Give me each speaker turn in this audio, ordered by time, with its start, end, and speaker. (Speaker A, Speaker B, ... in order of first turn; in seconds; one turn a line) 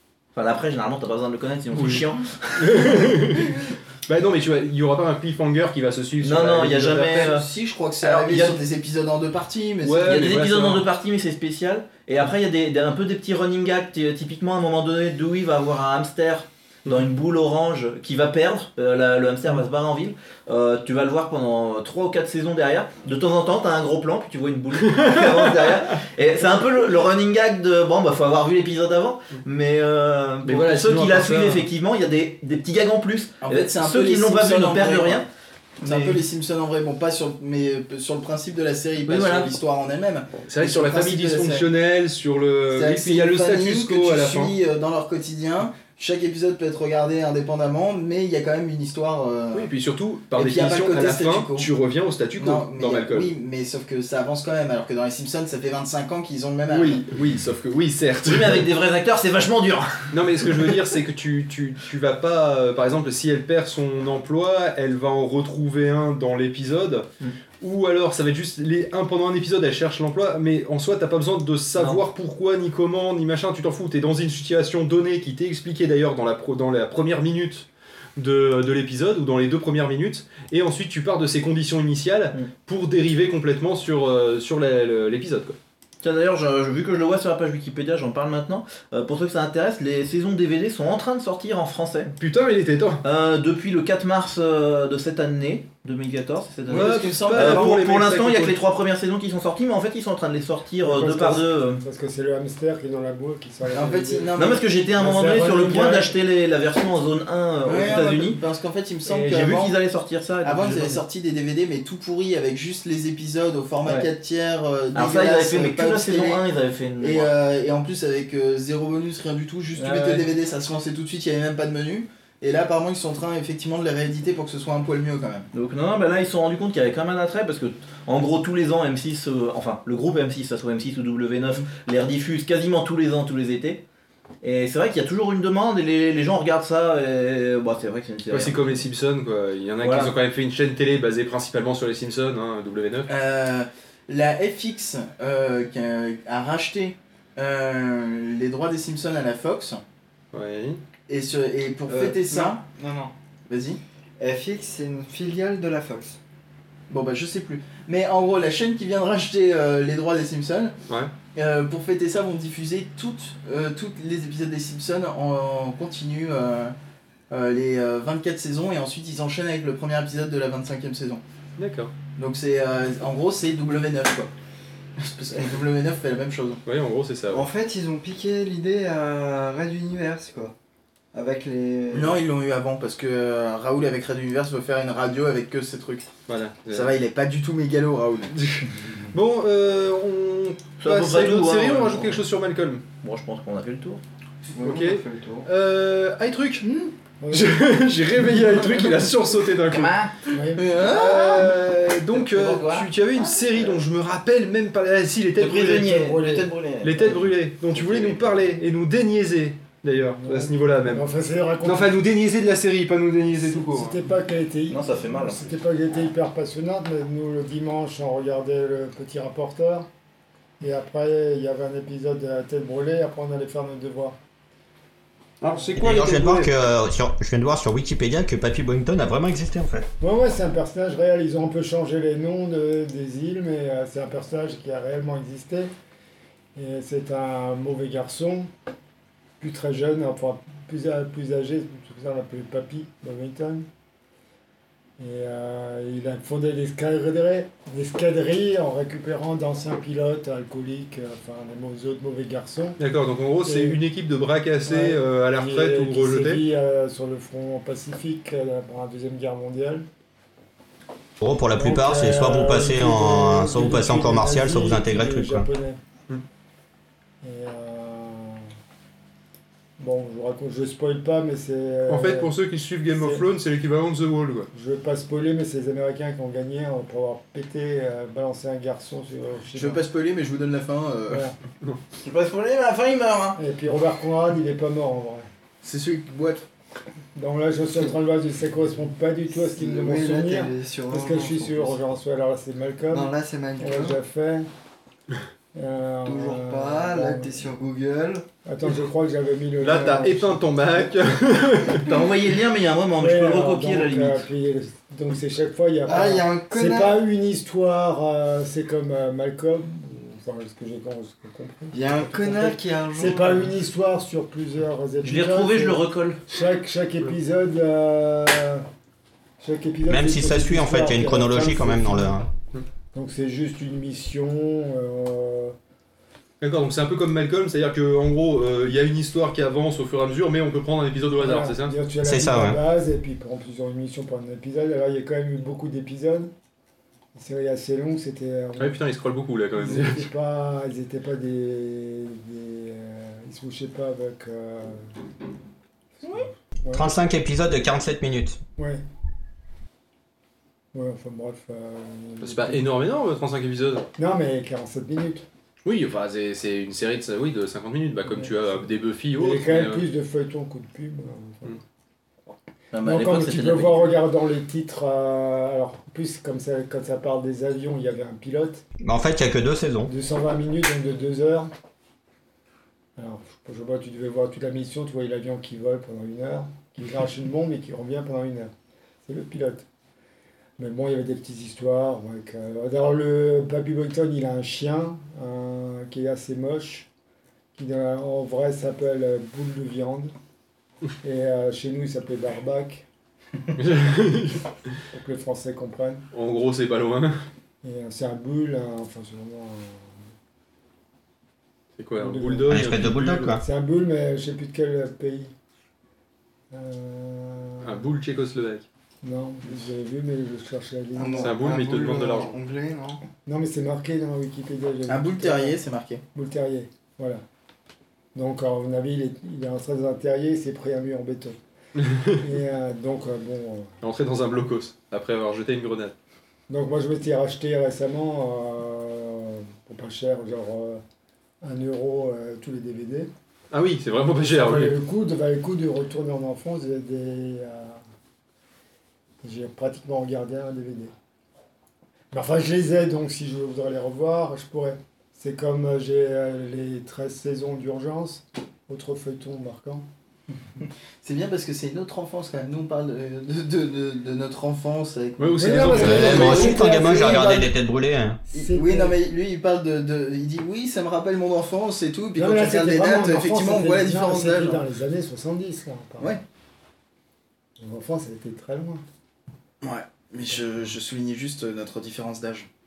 Speaker A: 0.3-3.4
Speaker B: 1.7-7.0
Speaker A: 6.2-7.5
Speaker C: 6.9-10.1
Speaker A: 8.0-8.6
Speaker B: 9.8-10.9
Speaker A: 10.1-35.3
Speaker B: 24.9-25.8
Speaker B: 30.4-31.7
Speaker C: 33.4-35.2
Speaker A: 35.8-36.2
Speaker C: 35.8-41.7
Speaker A: 39.1-39.5
Speaker B: 40.5-44.5
Speaker C: 42.7-49.7
Speaker B: 49.5-53.3
Speaker C: 50.4-51.7
Speaker C: 52.4-57.1
Speaker B: 56.7-58.7
Speaker A: 58.2-60.1
Speaker B: 60.1-67.1
Speaker B: 67.6-85.6
Speaker A: 71.8-72.0
Speaker A: 86.0-92.1
Speaker B: 92.2-93.0
Speaker A: 93.0-101.8
Speaker C: 96.7-97.7
Speaker B: 96.7-98.6
Speaker D: 100.8-104.4
Speaker C: 103.7-104.6
Speaker A: 104.4-108.4
Speaker D: 105.0-106.1
Speaker C: 107.6-109.8
Speaker A: 109.1-111.0
Speaker C: 110.4-116.4
Speaker A: 115.0-117.3
Speaker C: 117.0-125.5
Speaker A: 119.8-120.3
Speaker A: 125.5-133.8
Speaker A: 134.4-138.6
Speaker B: 138.3-143.1
Speaker A: 139.8-140.1
Speaker C: 143.1-149.8
Speaker B: 150.3-150.8
Speaker C: 151.1-152.6
Speaker E: 151.9-153.1
Speaker C: 153.5-153.8
Speaker E: 154.2-156.2
Speaker C: 156.9-160.8
Speaker C: 161.3-166.8
Speaker C: 167.3-171.2
Speaker B: 171.6-171.9
Speaker C: 172.2-174.3
Speaker C: 175.0-176.6
Speaker B: 176.7-177.5
Speaker E: 177.3-180.5
Speaker E: 181.1-182.2
Speaker C: 181.9-186.1
Speaker B: 186.3-186.9
Speaker C: 186.7-188.3
Speaker B: 188.3-192.8
Speaker A: 190.8-192.2
Speaker A: 193.0-194.0
Speaker E: 194.5-195.5
Speaker B: 194.6-196.7
Speaker D: 197.2-197.6
Speaker B: 197.3-200.0
Speaker A: 199.7-200.1
Speaker D: 200.3-200.8
Speaker C: 200.6-201.3
Speaker A: 200.8-201.5
Speaker B: 200.8-206.2
Speaker A: 202.1-202.9
Speaker A: 205.4-208.4
Speaker B: 206.8-211.0
Speaker D: 210.1-211.9
Speaker B: 211.6-214.0
Speaker D: 213.4-219.9
Speaker A: 214.7-215.4
Speaker D: 220.6-224.2
Speaker B: 225.4-226.5
Speaker F: 225.8-229.9
Speaker D: 230.0-235.7
Speaker D: 236.6-238.5
Speaker D: 239.4-243.7
Speaker D: 245.0-252.8
Speaker B: 252.8-256.4
Speaker D: 253.4-253.8
Speaker D: 254.7-259.9
Speaker F: 261.2-265.5
Speaker D: 261.6-265.8
Speaker D: 267.2-268.5
Speaker D: 269.8-272.3
Speaker B: 271.9-274.5
Speaker D: 272.9-273.2
Speaker D: 274.5-279.8
Speaker C: 279.6-281.2
Speaker D: 281.1-281.4
Speaker A: 282.0-283.4
Speaker D: 283.4-285.3
Speaker C: 285.6-286.4
Speaker D: 287.1-294.5
Speaker E: 289.3-291.8
Speaker E: 292.9-294.0
Speaker D: 295.5-297.4
Speaker E: 296.1-298.2
Speaker D: 298.5-300.5
Speaker B: 299.6-301.9
Speaker A: 301.9-304.3
Speaker D: 303.0-318.6
Speaker E: 305.9-307.0
Speaker E: 311.7-313.5
Speaker A: 315.0-316.2
Speaker D: 319.4-322.3
Speaker F: 319.9-322.3
Speaker D: 322.9-325.5
Speaker B: 326.4-331.7
Speaker D: 331.2-336.3
Speaker F: 332.0-332.6
Speaker D: 337.1-338.8
Speaker B: 338.6-340.1
Speaker D: 339.6-344.9
Speaker D: 346.0-346.9
Speaker F: 346.7-348.4
Speaker D: 350.7-352.7
Speaker B: 352.2-353.9
Speaker D: 354.0-355.3
Speaker B: 355.6-359.8
Speaker D: 359.2-361.6
Speaker A: 362.7-363.9
Speaker D: 362.8-368.6
Speaker F: 368.8-369.9
Speaker D: 369.9-371.5
Speaker D: 373.0-378.5
Speaker D: 379.1-379.7
Speaker D: 380.6-386.9
Speaker D: 387.6-390.1
Speaker D: 391.0-392.9
Speaker B: 393.6-394.4
Speaker D: 394.9-396.1
Speaker B: 396.1-397.2
Speaker D: 397.6-399.9
Speaker B: 401.8-403.4
Speaker D: 402.0-402.6
Speaker F: 402.5-403.4
Speaker D: 403.4-405.3
Speaker D: 406.5-407.8
Speaker B: 407.6-408.7
Speaker D: 409.0-411.4
Speaker E: 411.0-413.0
Speaker B: 411.2-412.3
Speaker D: 413.3-415.6
Speaker C: 414.9-416.0
Speaker D: 416.1-417.2
Speaker D: 418.1-421.4
Speaker B: 421.8-422.2
Speaker D: 422.2-423.7
Speaker B: 423.8-425.9
Speaker D: 426.5-430.8
Speaker D: 431.4-433.1
Speaker B: 433.5-434.8
Speaker D: 434.4-437.8
Speaker D: 439.2-440.9
Speaker D: 442.1-449.9
Speaker C: 451.0-457.5
Speaker B: 455.2-456.6
Speaker D: 455.4-457.5
Speaker F: 455.6-458.2
Speaker D: 458.3-458.9
Speaker C: 458.3-464.6
Speaker D: 462.2-466.2
Speaker D: 467.6-468.8
Speaker C: 469.6-472.5